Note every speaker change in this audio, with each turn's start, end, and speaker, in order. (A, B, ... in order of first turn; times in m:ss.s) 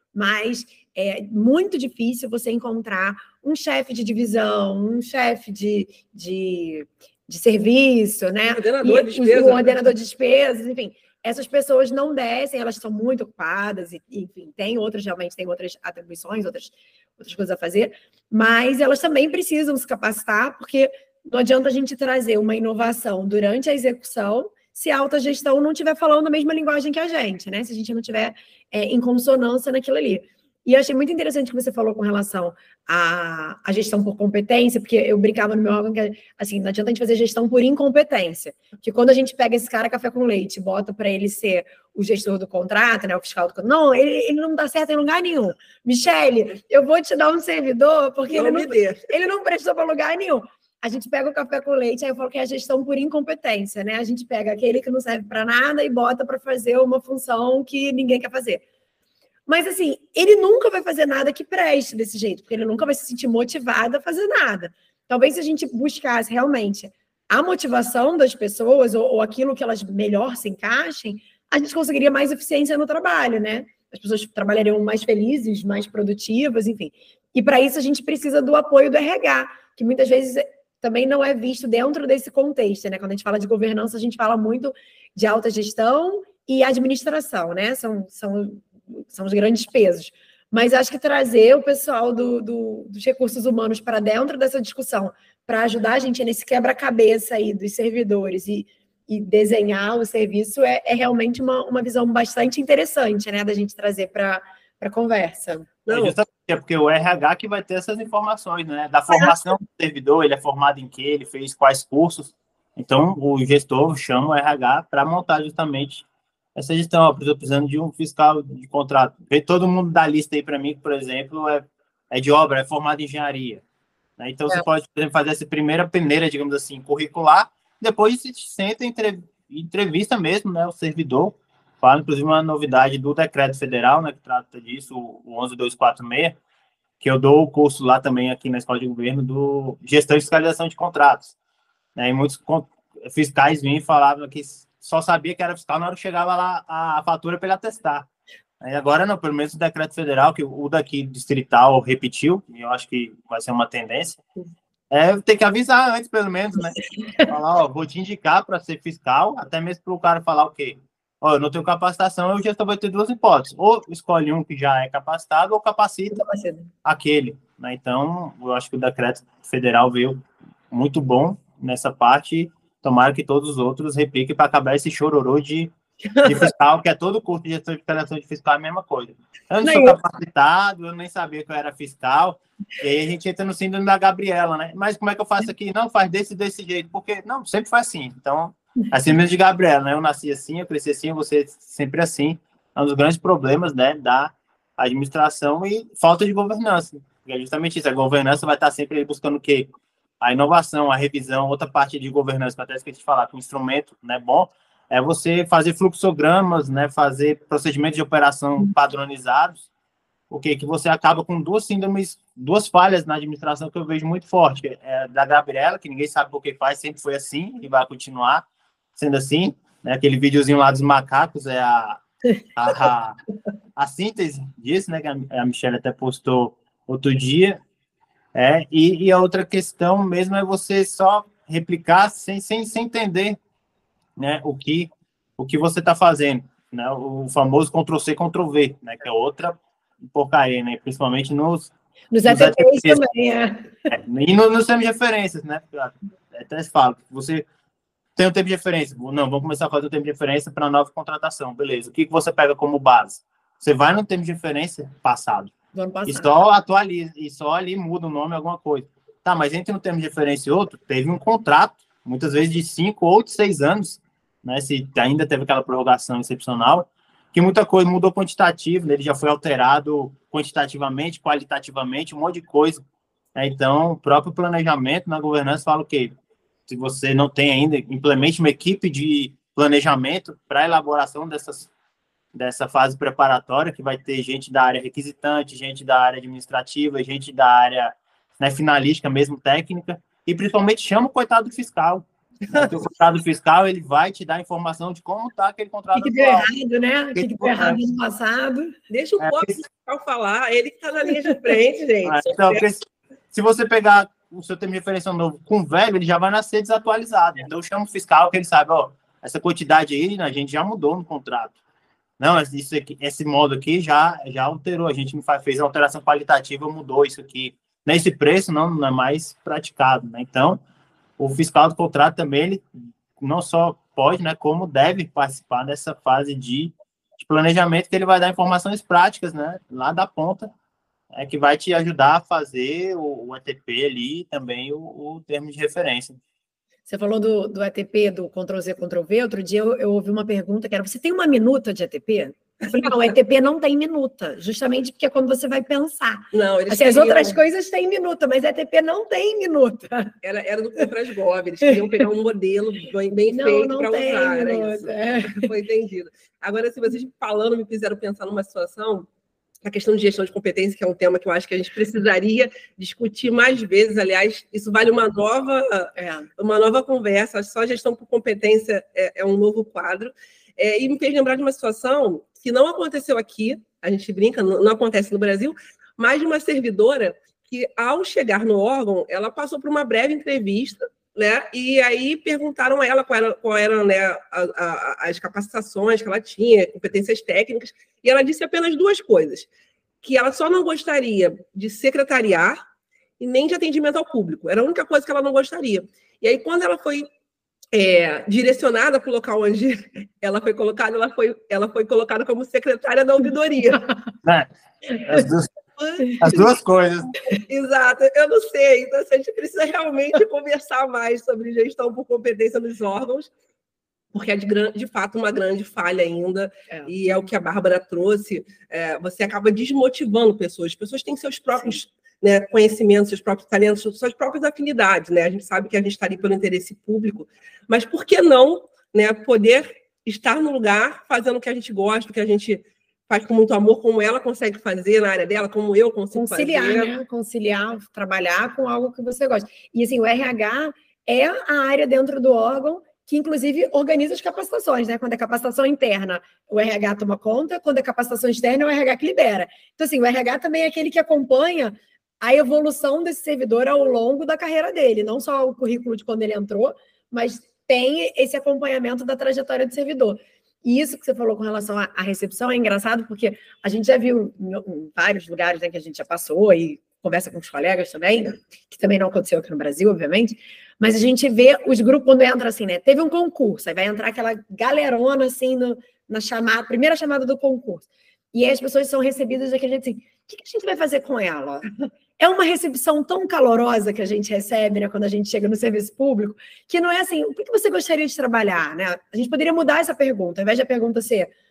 0:00.1-0:58.6 A
0:08.5-0:09.9 B
0:48.3-0:49.0 B
0:59.5-1:45.7 A
1:45.8-1:46.2 B
1:45.9-2:03.6 C
2:04.2-2:16.4 C
2:17.0-2:21.3 C
2:22.0-2:28.1 C
2:28.6-2:34.2 C
2:34.9-2:46.2 C
2:37.0-2:37.3 A
2:46.1-2:46.7 A
2:46.8-2:55.7 C
2:56.2-3:29.7 C
2:59.6-3:00.0 A
3:30.3-3:38.4 C
3:39.0-3:42.0 C
3:42.6-3:43.2 C
3:43.8-3:47.6 C
3:48.3-3:53.4 C
3:54.2-3:59.6 C
4:00.1-4:01.7 C
4:02.1-4:03.9 A
4:02.2-4:03.0 C
4:03.9-4:07.4 C
4:08.2-4:15.5 C
4:15.7-4:16.3 A
4:16.1-4:32.8 C
4:33.3-4:36.1 C
4:36.7-4:41.7 C
4:42.3-4:56.5 C
4:55.9-4:58.8 A
4:57.2-4:57.8 C
4:58.9-5:02.6 B
4:59.2-4:59.5 C
5:02.0-5:11.6 C
5:12.2-5:20.6 C
5:21.2-5:22.6 C
5:23.2-5:30.5 C
5:31.1-5:36.2 C
5:36.9-5:50.1 A
5:46.3-5:47.4 B
5:50.2-5:59.1 B
5:53.3-5:55.5 A
5:59.6-6:29.5 B
6:06.0-6:06.3 A
6:30.0-6:32.6 B
6:33.2-6:37.1 B
6:37.7-6:43.8 B
6:44.2-6:45.5 C
6:45.8-6:46.5 B
6:46.2-6:47.2 C
6:47.3-6:53.3 B
6:54.1-7:16.9 B
7:16.1-8:01.7 A
8:02.2-8:11.3 A